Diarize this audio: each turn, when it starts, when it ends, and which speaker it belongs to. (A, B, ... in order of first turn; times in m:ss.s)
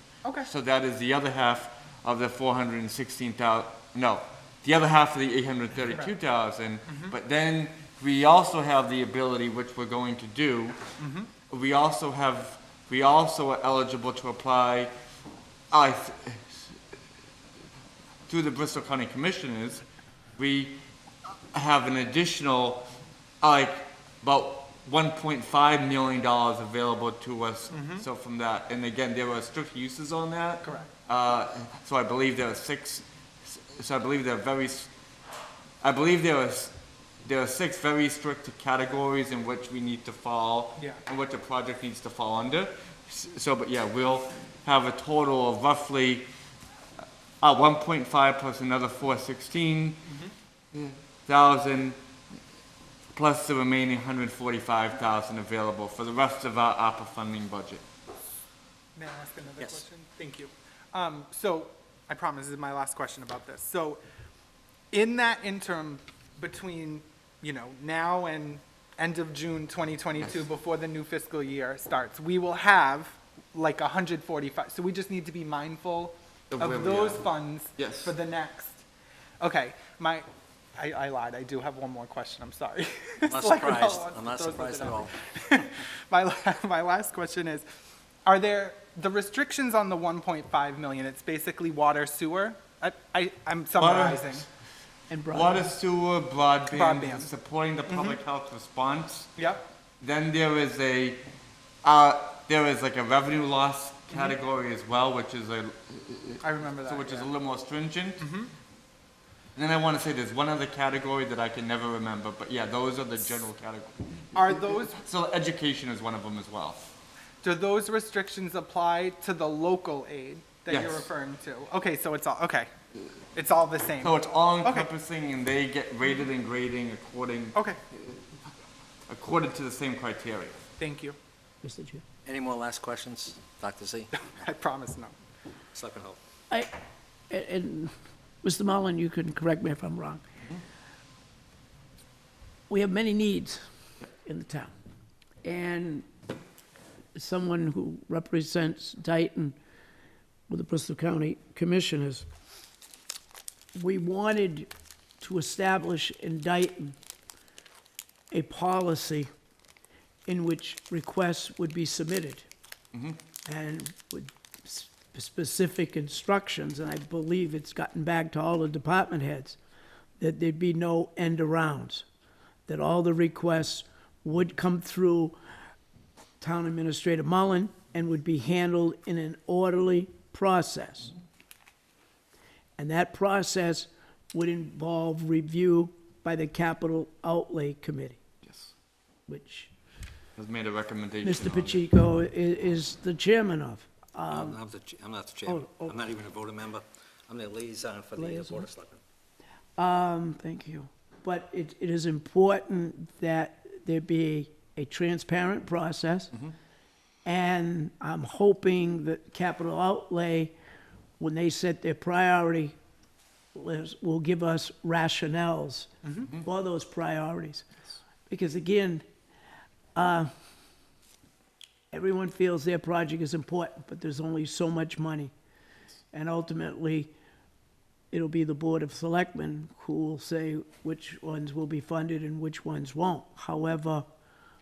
0:00.4-0:10.8 A
0:06.9-0:07.1 B
0:11.0-0:11.3 B
0:11.5-0:14.9 A
0:15.7-0:16.7 A
0:18.3-0:19.8 A
0:20.4-0:20.8 A
0:21.5-0:22.8 A
0:23.4-0:34.9 A
0:27.7-0:28.0 B
0:30.6-0:30.9 B
0:35.8-0:46.3 A
0:47.4-0:50.0 A
0:50.7-0:52.0 A
0:53.1-0:57.8 A
0:59.0-1:04.0 B
1:04.9-1:18.8 B
1:16.5-1:18.1 A
1:19.4-1:27.6 B
1:23.3-1:25.2 C
1:28.2-1:34.4 B
1:33.8-1:34.4 A
1:35.1-1:35.6 D
1:35.3-1:39.3 A
1:36.7-1:37.3 B
1:37.9-1:38.2 B
1:39.4-1:39.6 B
1:40.0-1:41.2 A
1:41.8-1:48.3 A
1:46.4-1:47.3 B
1:48.2-1:48.5 B
1:49.6-1:56.8 A
1:54.3-1:55.0 B
1:57.4-2:02.7 B
2:00.7-2:01.1 A
2:03.3-2:04.9 B
2:04.0-2:08.2 A
2:09.1-2:10.6 A
2:10.8-2:11.2 B
2:11.6-2:12.0 D
2:12.2-2:14.2 C
2:14.2-2:15.2 B
2:15.7-2:16.2 C
2:17.3-2:20.2 D
2:22.7-2:23.6 D
2:24.2-2:24.7 D
2:25.4-2:26.1 D
2:27.1-2:29.6 D
2:30.5-2:32.3 D
2:33.7-2:37.0 D
2:38.3-2:39.3 D
2:40.2-2:42.5 D
2:43.4-2:49.6 D
2:50.2-2:52.0 D
2:52.7-2:55.4 D
2:56.4-3:01.1 D
3:02.8-3:08.2 D
3:08.4-3:08.7 A
3:09.3-3:09.7 D
3:10.4-3:11.8 A
3:11.2-3:14.5 D
3:14.3-3:19.0 C
3:15.5-3:15.9 D
3:18.2-3:18.7 D
3:19.8-3:26.4 D
3:27.2-3:30.6 D
3:31.2-3:32.8 D
3:33.5-3:37.7 D
3:38.3-3:39.0 D
3:39.9-3:40.3 D
3:41.9-3:45.3 D
3:46.1-3:47.1 D
3:48.1-3:54.0 D